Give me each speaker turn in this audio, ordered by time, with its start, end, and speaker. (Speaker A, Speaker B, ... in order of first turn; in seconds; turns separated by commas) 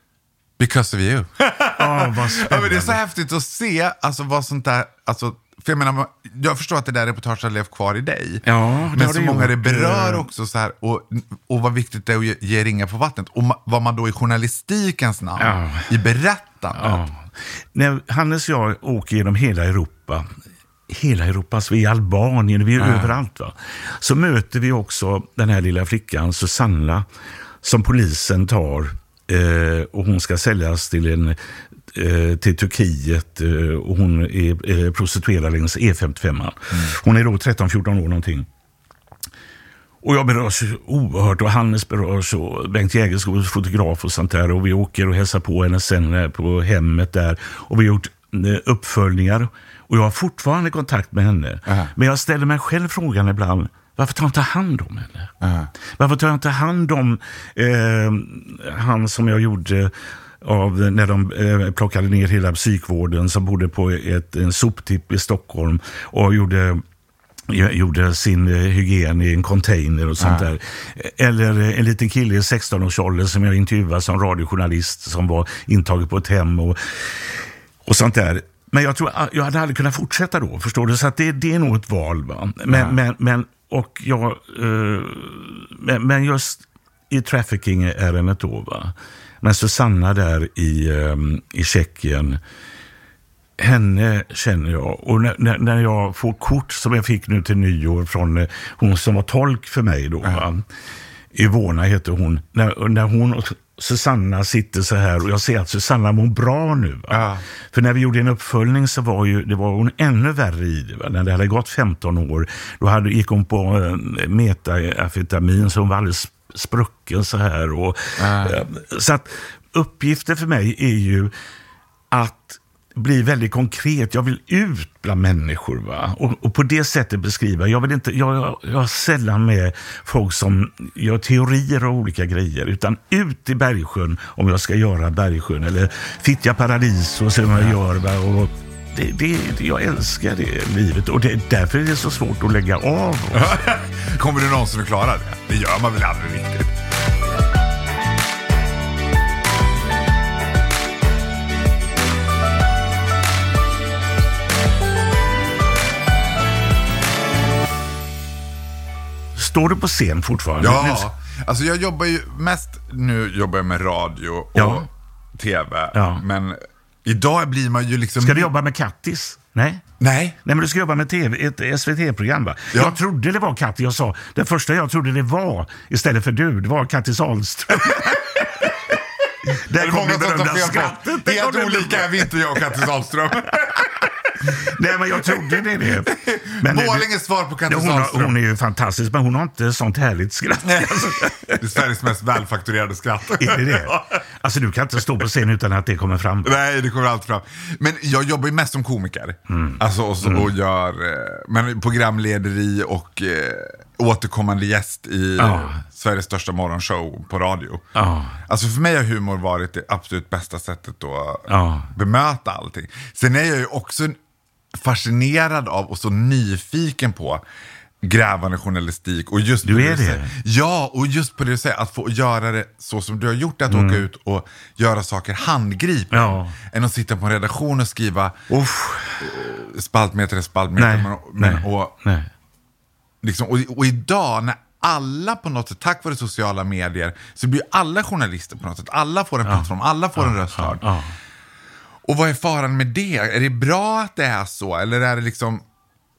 Speaker A: 0.6-17.0, Speaker B: 1.8-3.0, Speaker B: 8.4-10.2, Speaker B: 15.4-15.9, Speaker B: 16.7-20.3, Speaker B: 20.9-27.1, Speaker A: 22.8-23.1, Speaker B: 27.6-31.4, Speaker B: 31.9-38.5, Speaker B: 40.0-55.3, Speaker A: 55.4-55.7, Speaker B: 56.0-66.8, Speaker B: 67.5-92.4, Speaker A: 70.2-70.5, Speaker A: 82.7-83.0, Speaker B: 93.6-100.6, Speaker B: 101.3-121.3, Speaker A: 107.1-107.4, Speaker A: 118.2-118.6, Speaker B: 122.1-143.6, Speaker A: 143.3-146.7, Speaker B: 159.3-161.1, Speaker A: 160.6-168.5, Speaker B: 164.6-164.9, Speaker B: 165.9-166.2, Speaker B: 168.2-169.8, Speaker A: 170.0-170.4, Speaker B: 170.4-178.6, Speaker A: 177.8-178.2, Speaker B: 179.5-182.3, Speaker A: 179.7-183.9, Speaker B: 184.4-187.1, Speaker A: 186.1-188.3, Speaker B: 187.7-191.6, Speaker A: 190.7-194.1, Speaker B: 193.4-196.5, Speaker A: 196.4-207.8, Speaker B: 199.5-200.5, Speaker B: 205.4-205.8, Speaker B: 207.9-208.4, Speaker A: 208.5-214.2, Speaker B: 211.5-211.9, Speaker A: 214.7-217.4, Speaker A: 218.0-228.5, Speaker B: 219.6-220.3, Speaker B: 223.7-224.0, Speaker B: 226.1-226.5, Speaker B: 228.5-229.2, Speaker A: 229.2-231.9, Speaker B: 230.8-232.3, Speaker A: 233.2-240.8, Speaker B: 239.4-241.1, Speaker A: 242.1-245.6